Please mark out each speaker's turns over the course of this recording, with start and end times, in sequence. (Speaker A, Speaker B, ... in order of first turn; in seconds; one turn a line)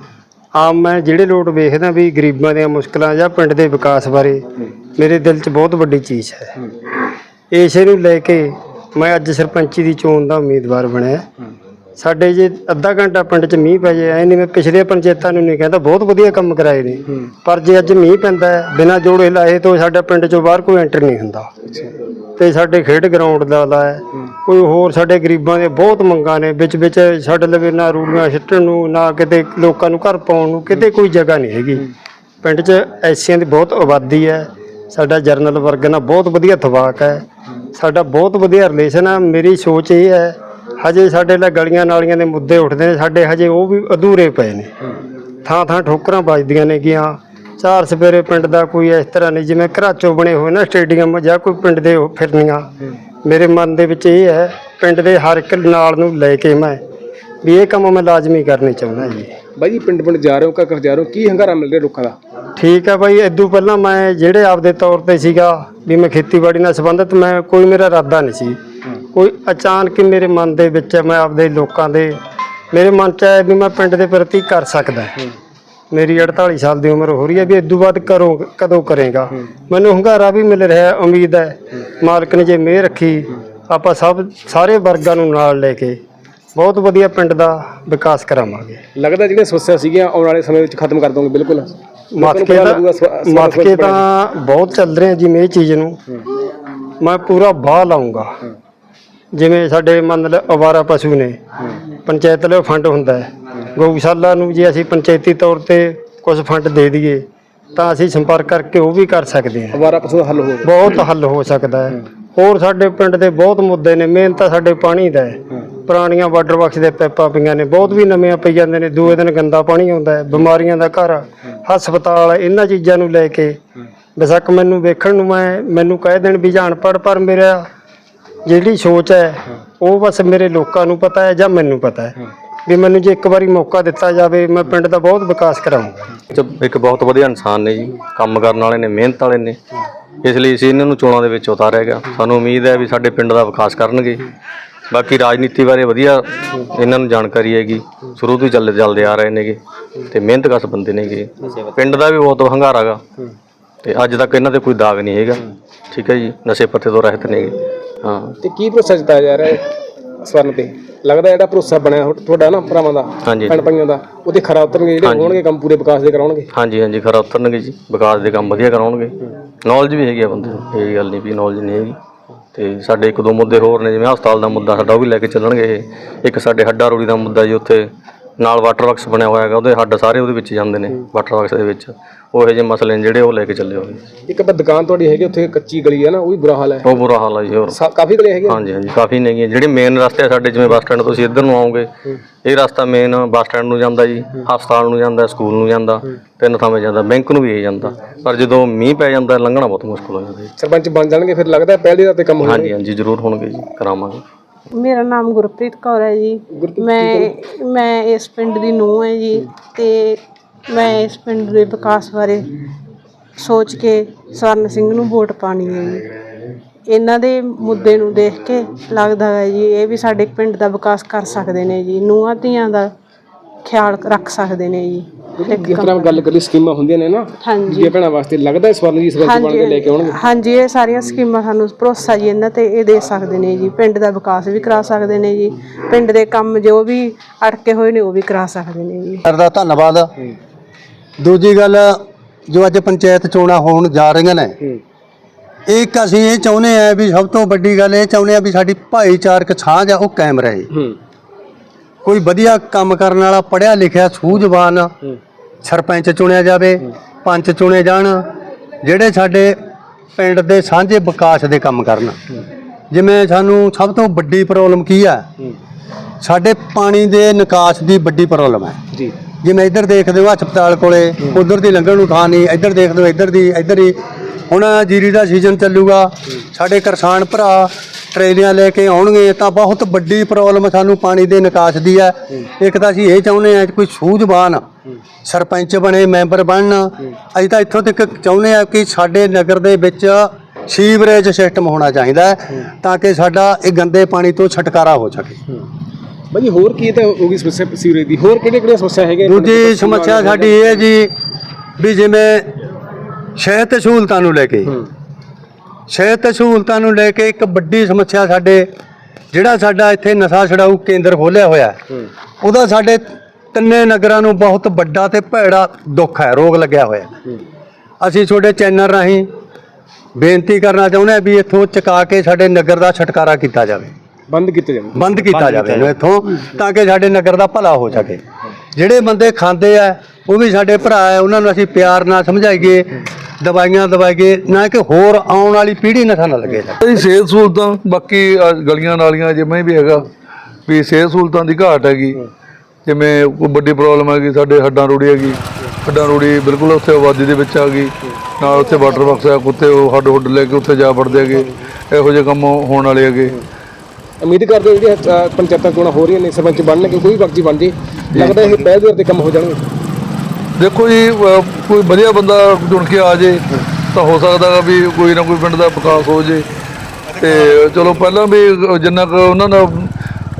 Speaker A: 0.6-4.4
Speaker A: 5.0-6.6
Speaker A: 7.5-11.2
Speaker A: 12.0-21.5
Speaker A: 22.4-31.9
Speaker A: 32.4-44.7
Speaker A: 45.4-52.6
Speaker A: 53.2-56.8
Speaker A: 57.4-59.3
Speaker B: 59.6-62.1
Speaker A: 62.6-68.6
Speaker A: 69.1-72.2
Speaker A: 72.7-75.2
Speaker A: 75.9-86.0
Speaker A: 86.5-88.8
Speaker B: 89.0-94.0
Speaker A: 92.1-96.0
Speaker A: 97.0-98.4
Speaker A: 99.3-101.4
Speaker A: 102.0-109.8
Speaker B: 109.7-110.7
Speaker A: 110.6-123.6
Speaker A: 124.2-127.7
Speaker A: 128.4-136.2
Speaker C: 136.3-139.6
Speaker C: 140.2-144.2
Speaker C: 144.9-149.6
Speaker C: 150.1-153.0
Speaker C: 153.8-158.3
Speaker B: 158.4-159.7
Speaker B: 160.2-166.5
Speaker C: 163.2-163.6
Speaker C: 165.0-165.4
Speaker C: 166.5-171.9
Speaker C: 172.5-177.9
Speaker C: 178.4-184.0
Speaker B: 184.3-186.9
Speaker C: 186.8-187.8
Speaker B: 187.7-188.6
Speaker C: 188.5-191.9
Speaker C: 192.4-200.5
Speaker B: 200.6-202.7
Speaker C: 202.4-204.2
Speaker D: 204.7-212.6
Speaker B: 206.5-207.3
Speaker D: 213.4-216.1
Speaker D: 216.9-222.9
Speaker D: 223.6-226.2
Speaker B: 225.4-230.2
Speaker D: 227.4-227.9
Speaker D: 229.2-239.2
Speaker E: 239.2-240.1
Speaker E: 241.2-244.6
Speaker E: 245.7-250.7
Speaker E: 252.0-254.9
Speaker E: 255.6-258.2
Speaker E: 258.8-259.6
Speaker E: 260.1-262.2
Speaker E: 262.9-265.2
Speaker E: 266.2-268.8
Speaker E: 269.4-274.0
Speaker E: 274.5-284.6
Speaker E: 285.2-295.4
Speaker B: 296.3-300.8
Speaker E: 299.2-301.1
Speaker E: 301.8-302.5
Speaker E: 303.4-304.8
Speaker E: 305.9-308.7
Speaker E: 309.3-311.8
Speaker E: 312.4-317.1
Speaker E: 318.0-319.3
Speaker E: 320.2-323.9
Speaker B: 324.3-325.5
Speaker E: 324.9-328.2
Speaker E: 328.7-336.8
Speaker F: 336.8-340.1
Speaker F: 340.7-342.2
Speaker F: 342.9-353.4
Speaker D: 348.4-349.2
Speaker B: 354.2-359.6
Speaker F: 358.1-358.4
Speaker F: 360.6-366.4
Speaker F: 367.1-369.9